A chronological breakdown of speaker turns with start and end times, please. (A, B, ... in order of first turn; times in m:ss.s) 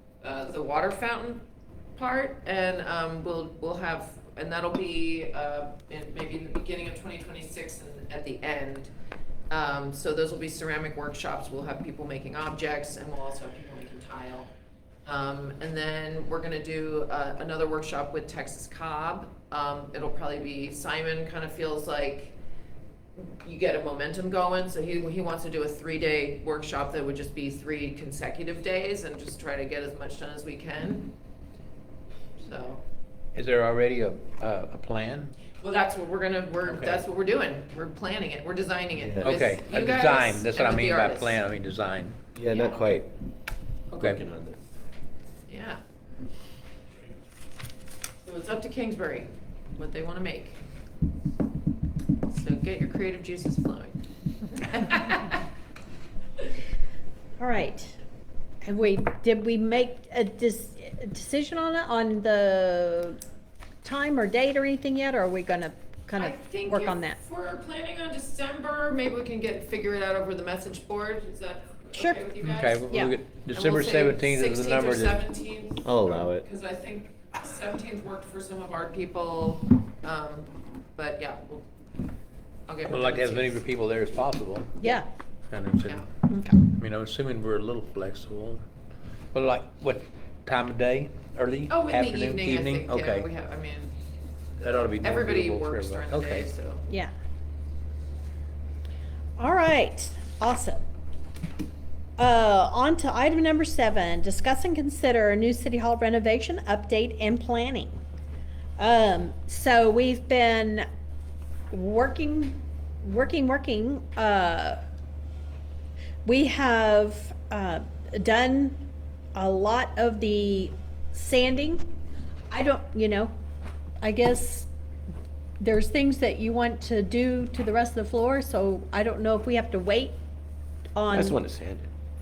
0:00.2-0:01.4 A
0:02.0-0:08.9 A
0:09.5-0:14.5 A
0:15.1-0:22.3 A
0:23.2-0:31.1 A
0:32.4-0:32.8 A
0:33.4-0:35.3 B
0:35.6-0:41.4 A
0:36.6-0:37.0 B
0:39.0-0:39.3 C
0:39.2-0:42.2 B
0:42.4-0:43.1 C
0:42.5-0:42.9 A
0:43.9-0:44.2 B
0:44.0-0:44.6 C
0:45.5-0:45.8 A
0:48.2-0:50.6 A
0:52.3-0:54.0 A
0:54.6-0:55.4 A
0:57.4-0:58.0 D
0:58.6-1:03.2 D
1:03.8-1:07.2 D
1:06.2-1:12.9 A
1:12.4-1:15.2 B
1:13.5-1:21.7 A
1:15.8-1:16.5 C
1:22.7-1:23.6 A
1:22.9-1:24.7 B
1:24.8-1:25.1 D
1:25.5-1:28.6 B
1:26.3-1:26.6 D
1:29.3-1:33.3 B
1:31.7-1:33.9 A
1:34.6-1:36.5 B
1:35.0-1:36.8 A
1:36.9-1:37.1 D
1:39.4-1:40.8 D
1:42.2-1:48.0 D
1:48.8-1:50.9 D
1:51.7-1:54.8 D
1:56.2-1:58.8 D
1:59.4-2:01.9 D
2:02.5-2:03.3 D
2:04.0-2:04.7 D
2:05.6-2:10.2 D
2:11.0-2:11.4 D
2:11.1-2:11.9 C